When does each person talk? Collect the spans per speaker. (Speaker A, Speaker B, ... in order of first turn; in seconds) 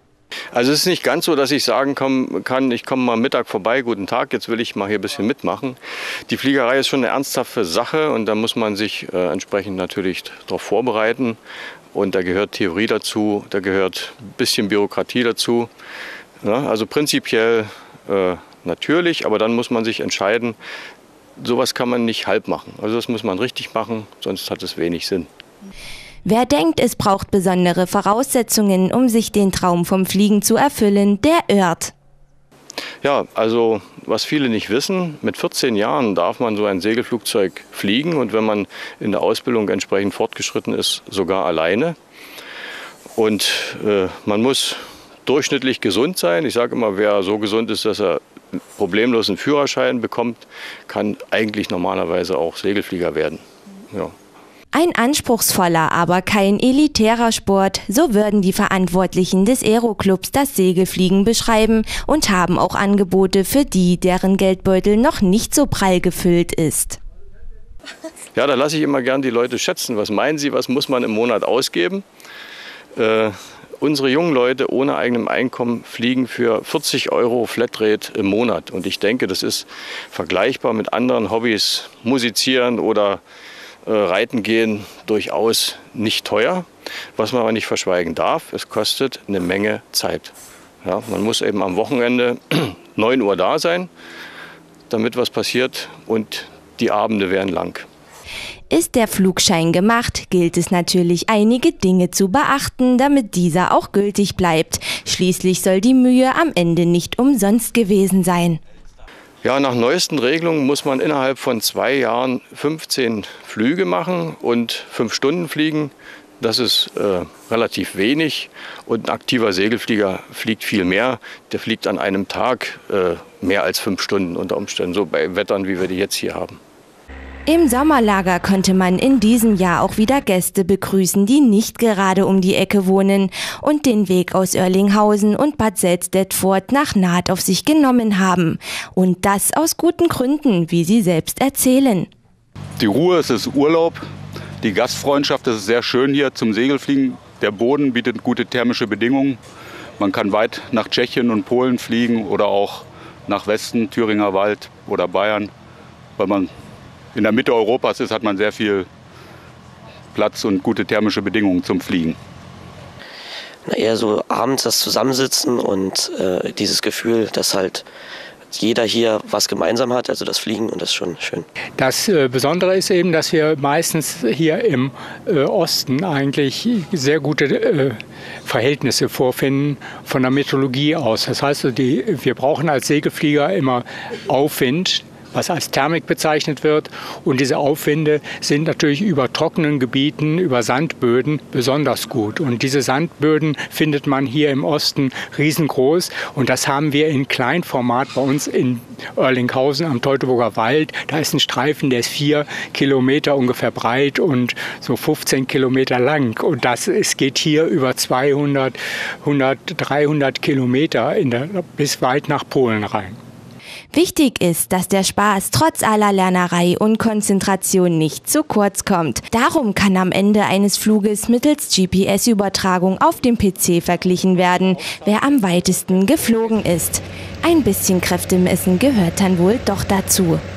Speaker A: 0.5-11.4, 11.9-15.7, 16.4-20.6, 21.4-25.3, 33.0-42.0, 43.1-48.2, 48.7-54.1, 68.3-72.0, 73.0-83.2, 83.8-93.9, 94.9-97.9, 109.4-126.6
Speaker B: 26.2-31.9, 54.7-67.0, 98.7-108.6, 127.5-142.1, 213.9-230.4
Speaker C: 142.8-144.1, 144.6-149.4, 150.0-155.5, 156.2-156.5, 157.1-158.9, 160.1-162.2
Speaker D: 163.7-167.8, 168.5-171.5
Speaker E: 171.8-213.2